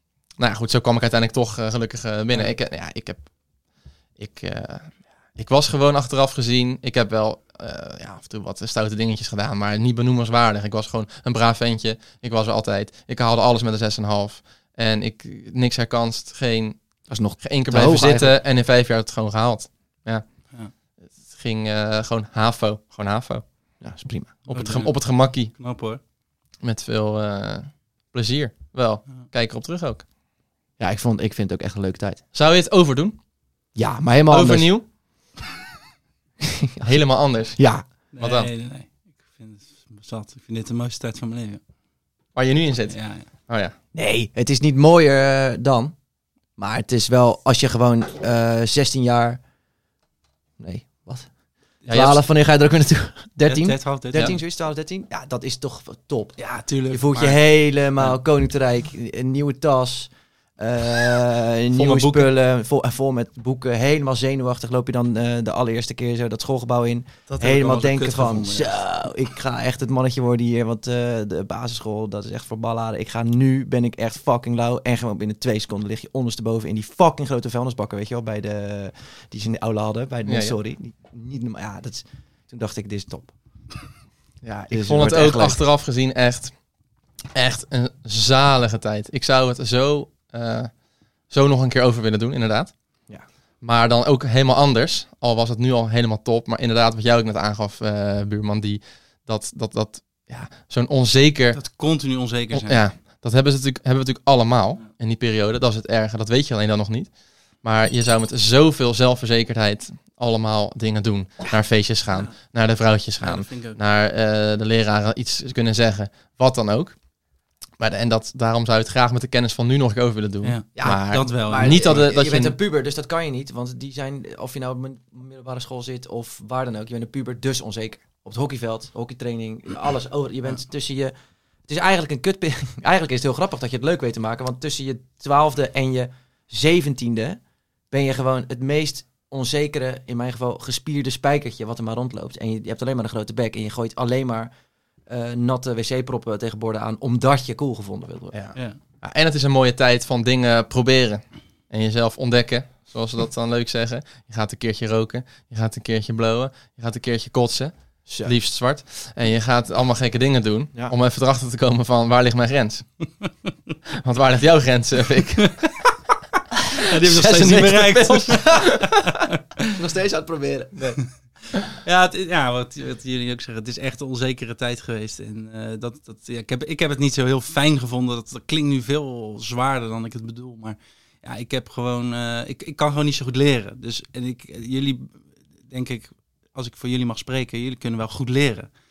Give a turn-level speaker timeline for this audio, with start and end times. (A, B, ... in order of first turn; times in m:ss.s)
0:00.4-0:03.3 A
0:04.2-0:16.8 A
0:17.1-0:18.4 B
0:17.4-0:20.2 A
0:21.2-0:23.4 A
0:23.8-0:24.4 B
0:24.5-0:25.5 A
0:24.5-0:26.0 C
0:26.6-0:30.0 A
0:30.8-0:32.2 B
0:32.3-0:33.2 A
0:33.7-0:34.7 B
0:34.3-0:34.8 A
0:36.4-0:37.0 B
0:36.8-0:37.6 A
0:37.6-0:37.8 B
0:38.1-0:41.6 C
0:38.2-0:38.5 A
0:42.3-0:43.0 A
0:42.9-0:43.2 C
0:43.5-0:43.7 A
0:43.9-0:45.9 B
0:46.6-0:49.4 B
0:50.6-0:51.3 B
0:51.9-0:52.2 A
0:51.9-0:56.4 B
0:53.4-0:54.4 C
0:56.4-0:57.4 C
0:56.9-1:23.3 B
1:01.7-1:02.3 A
1:07.3-1:08.8 C
1:20.3-1:20.5 A
1:24.4-1:26.5 A
1:24.7-1:25.6 B
1:27.3-1:30.7 A
1:31.3-1:32.7 A
1:33.6-1:41.6 A
1:41.5-1:42.8 C
1:42.5-1:57.0 A
1:53.2-1:53.8 C
1:57.8-2:02.6 A
2:00.4-2:01.9 C
2:00.8-2:11.1 B
2:11.7-2:17.4 B
2:17.9-2:24.5 B
2:25.1-2:28.4 B
2:28.3-2:42.8 A
2:38.1-2:38.3 B
2:44.0-2:45.7 A
2:46.8-2:49.7 C
2:47.0-2:49.0 A
2:49.7-2:51.0 B
2:51.7-3:08.7 C